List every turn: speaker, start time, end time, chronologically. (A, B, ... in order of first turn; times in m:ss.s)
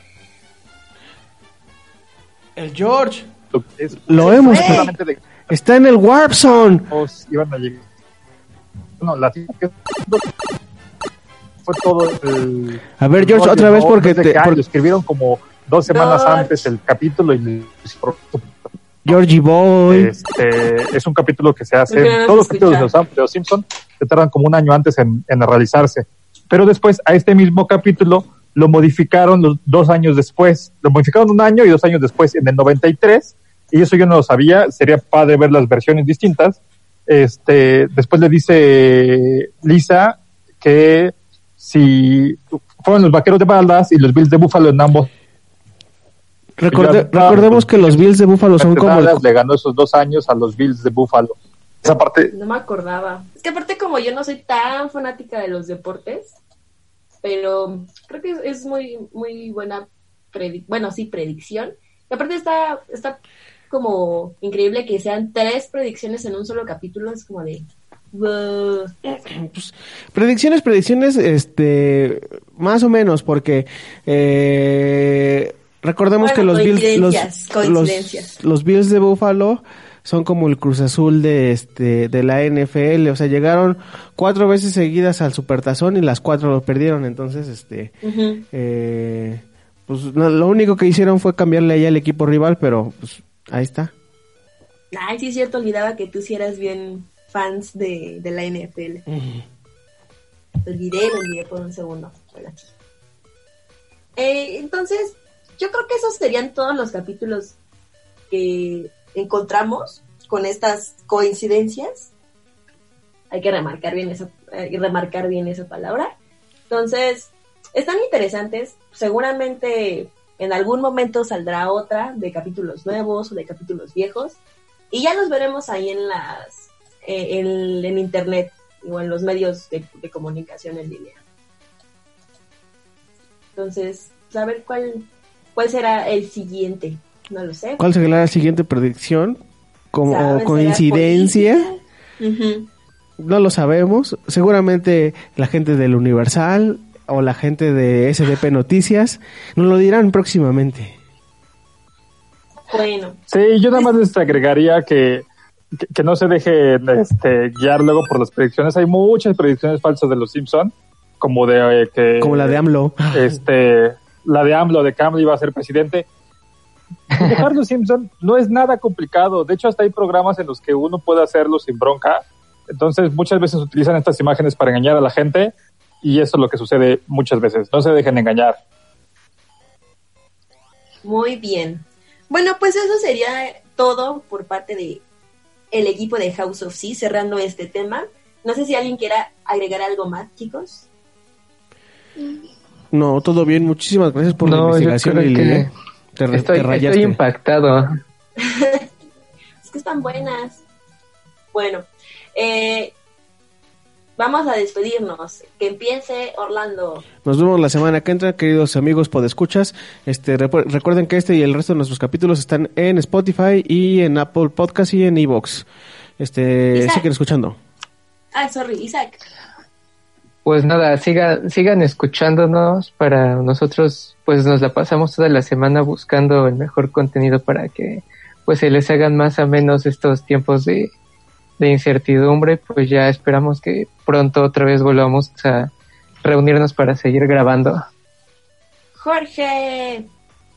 0:02.6-0:03.2 A
0:03.5-0:05.5 B
0:04.1-0:04.9 A
0:04.2-0:04.9 C
0:05.5-0:06.8 A
0:06.5-0:07.8 B
0:09.0-0:10.2 B
0:11.6-0:18.5 B
0:13.0-0:14.6 A
0:15.9-0:16.6 C
0:19.0-0:20.1 A
0:19.9-0:45.1 B
0:21.9-0:22.9 C
0:46.6-0:49.2 A
0:46.7-0:48.0 B
0:48.6-0:52.3 B
0:52.3-0:56.3 C
0:57.2-1:03.2 C
1:03.7-1:08.9 C
1:09.1-1:27.9 A
1:16.2-1:18.3 C
1:28.0-1:28.4 C
1:28.5-1:33.9 A
1:34.9-1:39.0 C
1:39.1-1:39.4 A
1:40.6-1:42.7 C
1:44.2-1:47.6 C
1:48.3-1:52.1 C
1:53.3-1:56.1 C
1:56.7-2:04.4 C
2:04.9-2:11.2 C
2:13.6-2:17.8 C
2:17.8-2:19.4 A
2:19.9-2:21.7 A
2:20.1-2:22.7 C
2:23.2-2:31.0 A
2:32.7-2:33.2 C
2:33.3-2:35.2 B
2:35.8-2:42.6 B
2:42.2-2:43.4 A
2:43.1-2:46.0 B
2:47.1-2:55.5 B
2:56.0-2:58.6 B
3:01.0-3:05.0 C
3:05.7-3:10.9 C
3:12.9-3:17.2 A
3:14.4-3:15.7 D
3:16.3-3:17.9 D
3:18.4-3:18.8 C
3:19.6-3:20.6 C
3:21.5-3:22.9 C
3:24.2-3:27.0 C
3:27.2-3:35.7 A
3:36.2-3:37.6 A
3:36.7-3:37.0 C
3:38.3-3:39.2 C
3:40.4-3:50.9 D
3:51.6-3:55.7 D
3:56.2-3:57.8 D
3:59.0-4:00.1 C